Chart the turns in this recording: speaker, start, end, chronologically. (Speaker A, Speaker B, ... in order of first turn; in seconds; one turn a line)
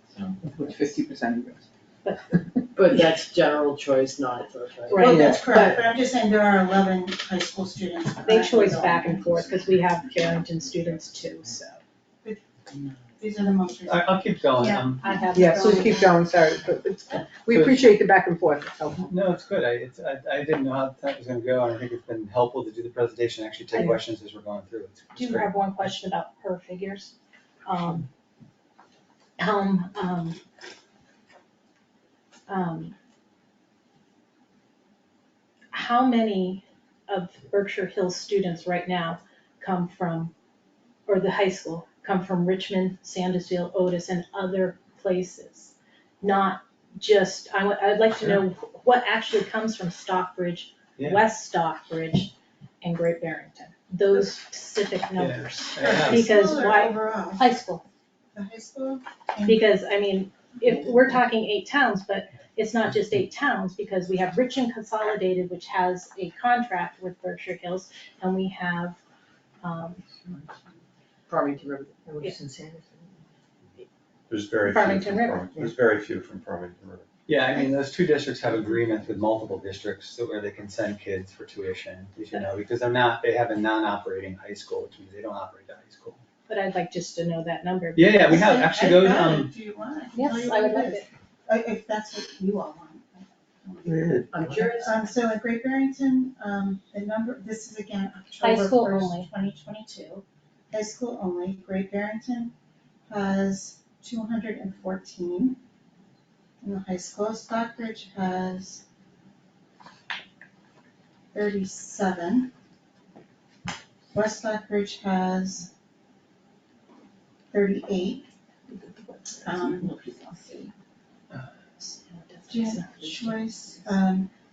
Speaker A: 0.4-1.6
Speaker B: 2.0-2.3
Speaker C: 2.7-5.7
Speaker B: 4.9-5.8
Speaker D: 4.9-9.4
Speaker A: 5.1-5.5
Speaker B: 8.2-11.8
Speaker D: 13.2-16.1
Speaker E: 13.9-15.1
Speaker B: 15.0-16.1
Speaker A: 15.3-19.1
Speaker E: 17.5-17.9
Speaker E: 19.0-25.5
Speaker B: 25.1-27.1
Speaker B: 27.6-28.1
Speaker B: 29.4-30.4
Speaker B: 32.5-32.9
Speaker B: 35.7-40.3
Speaker B: 41.0-57.8
Speaker E: 55.2-56.3
Speaker D: 55.8-57.4
Speaker D: 58.3-59.6
Speaker B: 59.4-69.0
Speaker B: 69.6-70.0
Speaker C: 71.3-73.1
Speaker F: 74.3-77.0
Speaker B: 74.6-75.5
Speaker E: 77.3-86.2
Speaker B: 86.5-88.5
Speaker E: 88.0-89.5
Speaker D: 88.3-102.5
Speaker B: 90.1-91.0
Speaker C: 94.3-94.9
Speaker B: 98.4-99.3
Speaker D: 103.1-105.6
Speaker D: 106.6-108.8
Speaker D: 111.3-112.5
Speaker D: 114.1-115.7
Speaker D: 117.5-118.2
Speaker A: 118.7-120.7
Speaker D: 119.4-119.9
Speaker B: 121.8-123.3
Speaker D: 122.5-124.3